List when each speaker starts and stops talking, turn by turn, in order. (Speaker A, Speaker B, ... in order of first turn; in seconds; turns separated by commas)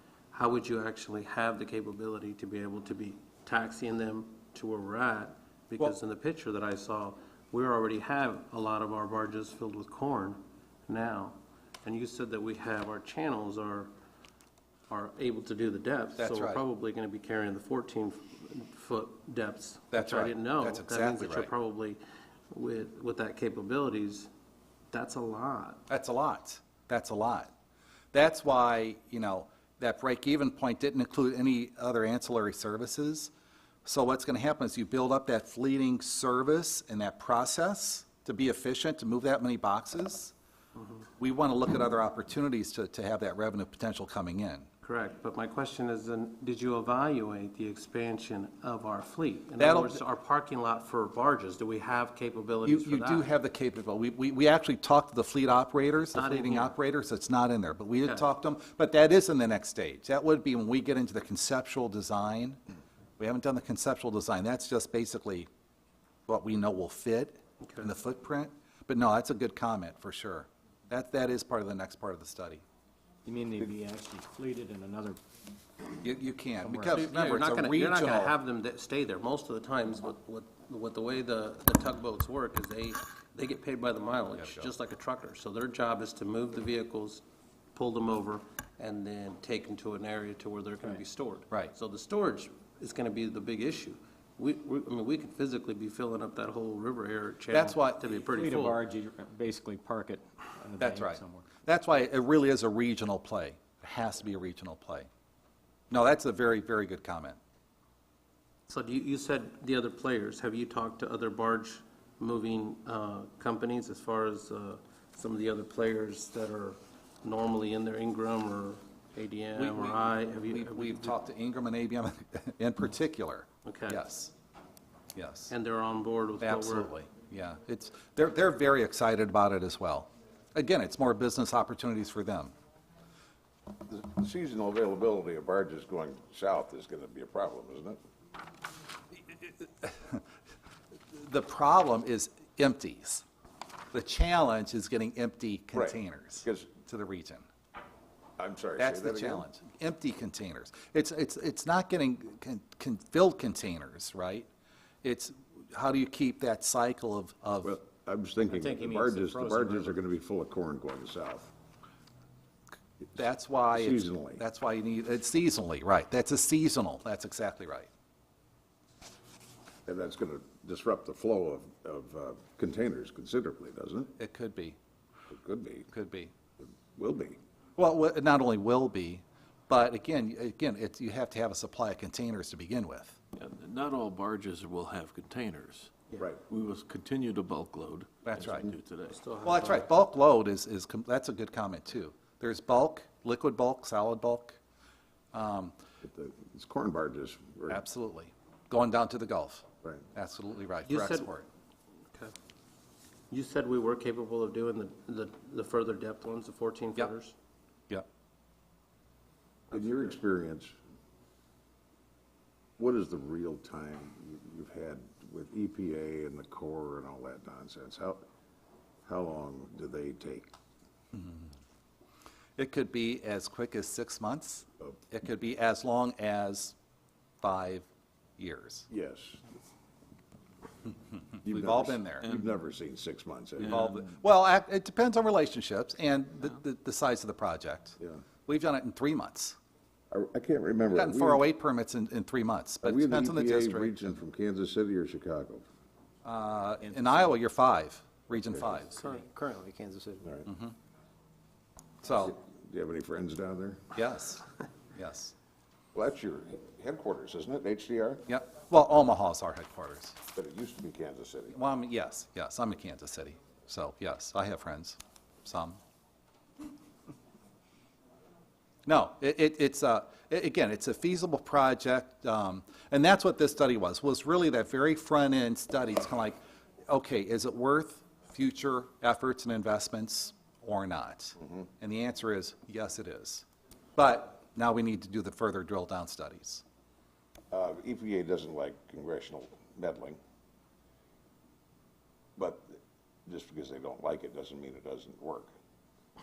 Speaker A: 0.3-13.9, Speaker A: 14.9-22.0, Speaker B: 16.2-16.6, Speaker B: 19.9-21.5, Speaker A: 22.5-24.3, Speaker A: 24.9-25.8, Speaker B: 25.9-27.5, Speaker B: 28.1-33.3, Speaker B: 33.8-40.3, Speaker A: 40.8-41.0, Speaker B: 41.2-44.7, Speaker A: 44.8-53.3, Speaker B: 49.6-50.0, Speaker B: 52.6-62.6, Speaker A: 56.1-56.7, Speaker B: 63.2-65.5, Speaker B: 66.3-72.6, Speaker A: 67.6-67.9, Speaker C: 73.2-75.2, Speaker B: 76.0-78.3, Speaker C: 76.6-77.0, Speaker A: 76.9-98.8, Speaker B: 84.4-84.7, Speaker B: 97.5-98.2, Speaker C: 98.3-101.5, Speaker B: 100.8-105.1, Speaker B: 105.9-107.4, Speaker A: 108.7-121.1, Speaker B: 119.5-124.3, Speaker A: 123.6-124.1, Speaker B: 125.1-125.5, Speaker A: 125.5-126.9, Speaker B: 126.4-132.5, Speaker D: 133.8-138.0, Speaker B: 139.2-140.2, Speaker B: 141.1-143.2, Speaker B: 143.9-147.4, Speaker D: 145.7-146.8, Speaker D: 148.4-149.4, Speaker B: 148.8-154.5, Speaker B: 155.0-157.8, Speaker D: 157.6-161.5, Speaker C: 158.5-160.0, Speaker B: 163.1-167.9, Speaker D: 163.7-164.4, Speaker D: 169.8-174.1, Speaker B: 174.2-174.8, Speaker D: 175.3-175.9, Speaker B: 175.9-176.3, Speaker D: 176.6-177.4, Speaker B: 177.8-183.2, Speaker E: 183.3-185.9, Speaker E: 186.5-189.2, Speaker B: 188.2-188.7, Speaker A: 189.1-189.9, Speaker B: 189.4-194.6, Speaker B: 195.3-195.8, Speaker D: 196.0-197.8, Speaker B: 197.7-201.5, Speaker A: 200.8-201.3, Speaker A: 203.3-207.3, Speaker D: 209.7-210.7, Speaker D: 212.8-218.2, Speaker D: 219.0-220.5, Speaker B: 221.1-221.5, Speaker B: 222.6-226.7, Speaker B: 227.4-227.9, Speaker B: 228.4-228.9, Speaker D: 228.9-229.4, Speaker D: 231.4-233.9, Speaker B: 231.4-232.3, Speaker B: 233.6-239.6, Speaker D: 240.1-241.4, Speaker B: 240.9-244.1, Speaker D: 242.8-245.7, Speaker B: 246.2-249.0, Speaker C: 246.8-247.3, Speaker C: 248.9-250.4, Speaker B: 250.4-250.7, Speaker B: 252.0-252.4, Speaker D: 252.3-253.9, Speaker B: 253.9-255.3, Speaker D: 255.9-258.2, Speaker B: 258.3-260.2, Speaker D: 260.3-261.6, Speaker B: 261.5-265.8, Speaker B: 268.9-276.4, Speaker B: 276.9-283.4, Speaker B: 283.9-286.6, Speaker D: 287.5-290.2, Speaker D: 292.4-295.5